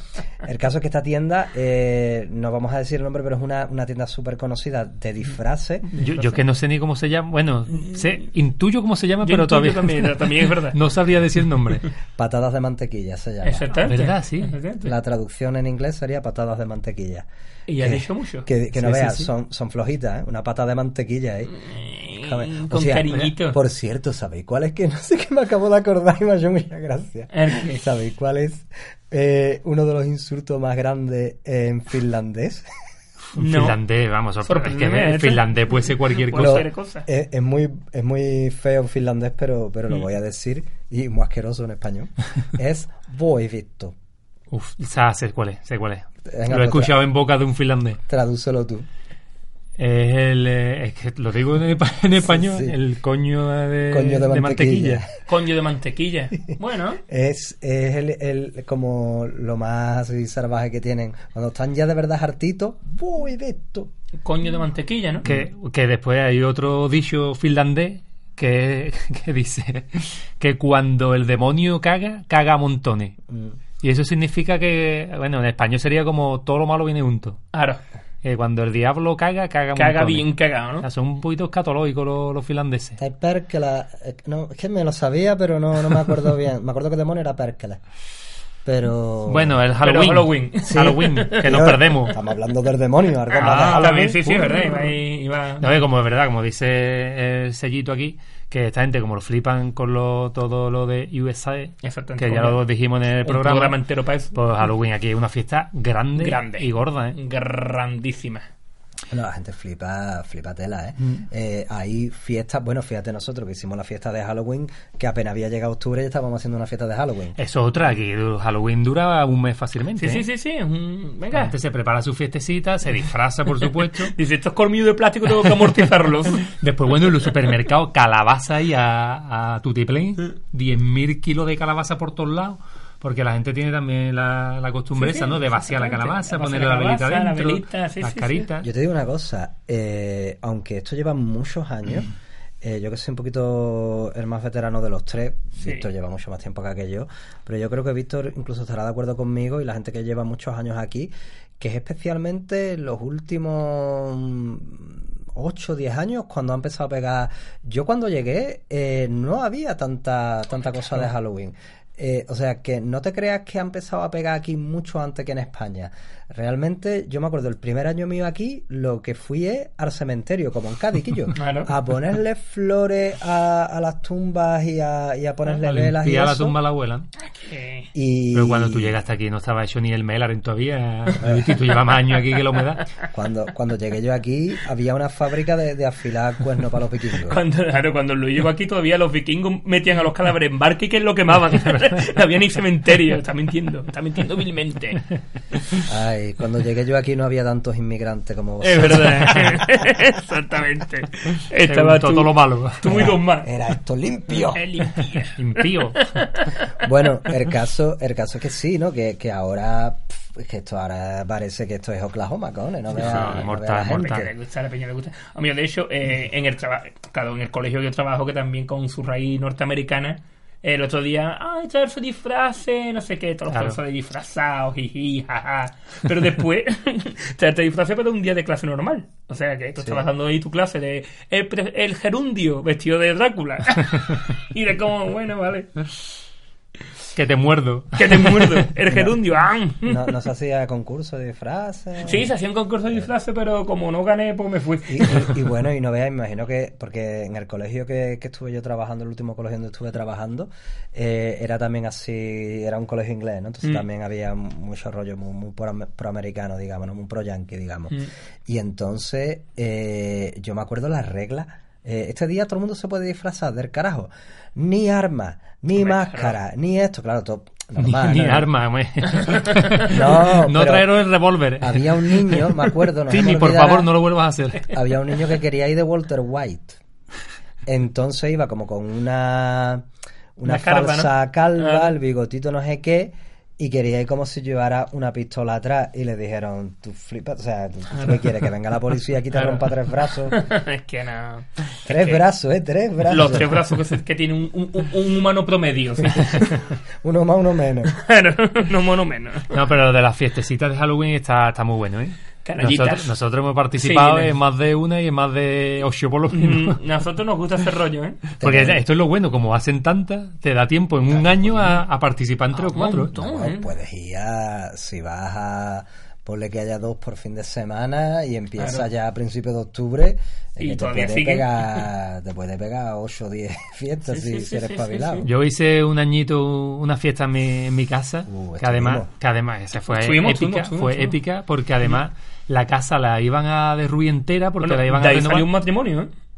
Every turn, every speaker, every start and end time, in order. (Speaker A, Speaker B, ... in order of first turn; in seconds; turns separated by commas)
Speaker A: 0.4-5.9, Speaker B: 5.9-6.3, Speaker C: 6.0-11.9, Speaker B: 9.2-10.8, Speaker A: 12.2-13.8, Speaker B: 13.4-14.9, Speaker C: 13.8-14.6, Speaker A: 14.8-17.3, Speaker B: 17.7-18.5, Speaker A: 17.8-21.5, Speaker C: 18.8-19.3, Speaker B: 21.5-23.6, Speaker A: 22.2-32.6, Speaker B: 27.3-27.8, Speaker B: 33.3-33.8, Speaker C: 33.3-36.7, Speaker B: 34.4-35.5, Speaker B: 36.0-37.1, Speaker A: 36.3-43.9, Speaker C: 44.5-48.0, Speaker A: 46.3-47.0, Speaker A: 48.1-48.9, Speaker C: 49.8-55.0, Speaker A: 52.2-52.8, Speaker A: 53.9-55.1, Speaker B: 55.3-57.0, Speaker A: 57.1-63.9, Speaker B: 64.2-65.3, Speaker C: 65.2-73.2, Speaker A: 73.3-73.6, Speaker C: 73.8-77.4, Speaker B: 77.5-77.8, Speaker C: 78.2-83.0, Speaker B: 79.8-80.8, Speaker A: 83.0-87.8, Speaker A: 88.7-89.6, Speaker C: 89.3-92.2, Speaker B: 89.8-91.4, Speaker A: 90.7-94.2, Speaker B: 93.3-95.7, Speaker C: 93.4-94.8, Speaker C: 95.6-103.8, Speaker B: 101.8-102.6, Speaker B: 103.2-104.3, Speaker C: 104.3-107.2, Speaker B: 106.2-108.5, Speaker A: 109.1-117.4, Speaker C: 117.4-120.3, Speaker B: 120.0-121.5, Speaker C: 121.3-124.1, Speaker B: 123.8-126.5, Speaker C: 126.5-138.7, Speaker B: 134.9-138.5, Speaker A: 138.6-142.1, Speaker A: 142.6-176.6, Speaker B: 145.6-145.8, Speaker B: 171.3-171.7, Speaker C: 175.5-177.1, Speaker B: 177.2-177.9, Speaker A: 177.9-178.9, Speaker C: 178.3-182.9, Speaker A: 181.2-181.6, Speaker A: 183.1-187.4, Speaker B: 187.3-195.0, Speaker A: 195.8-199.9, Speaker B: 198.6-203.5, Speaker C: 201.7-203.1, Speaker A: 202.9-204.6, Speaker B: 204.3-206.8, Speaker C: 205.3-206.1, Speaker A: 206.8-214.3, Speaker C: 212.9-214.3, Speaker B: 212.9-235.8, Speaker C: 223.5-223.8, Speaker A: 229.8-230.1, Speaker C: 237.1-238.7, Speaker B: 237.9-240.1, Speaker A: 238.9-239.2, Speaker A: 239.8-242.3, Speaker B: 242.0-245.3, Speaker A: 244.9-268.5, Speaker B: 265.8-266.3, Speaker C: 267.8-274.7, Speaker B: 269.3-269.6, Speaker A: 269.8-270.9, Speaker A: 271.6-273.9, Speaker A: 274.7-276.8, Speaker A: 277.7-279.9, Speaker A: 280.4-290.4, Speaker B: 280.4-281.9, Speaker B: 289.3-289.7, Speaker B: 290.3-292.2, Speaker A: 291.8-293.6, Speaker B: 293.1-296.6, Speaker A: 297.0-297.9, Speaker B: 297.9-299.6, Speaker C: 299.5-306.8, Speaker B: 302.4-303.1, Speaker B: 303.8-304.3, Speaker B: 306.3-308.2, Speaker A: 308.4-308.8, Speaker C: 308.4-313.1, Speaker A: 311.1-311.8, Speaker B: 312.6-313.7, Speaker A: 313.1-325.3, Speaker B: 318.6-318.9, Speaker B: 320.6-321.9, Speaker B: 324.1-325.3, Speaker C: 325.2-335.5, Speaker A: 328.3-329.1, Speaker B: 329.9-331.2, Speaker B: 334.6-336.1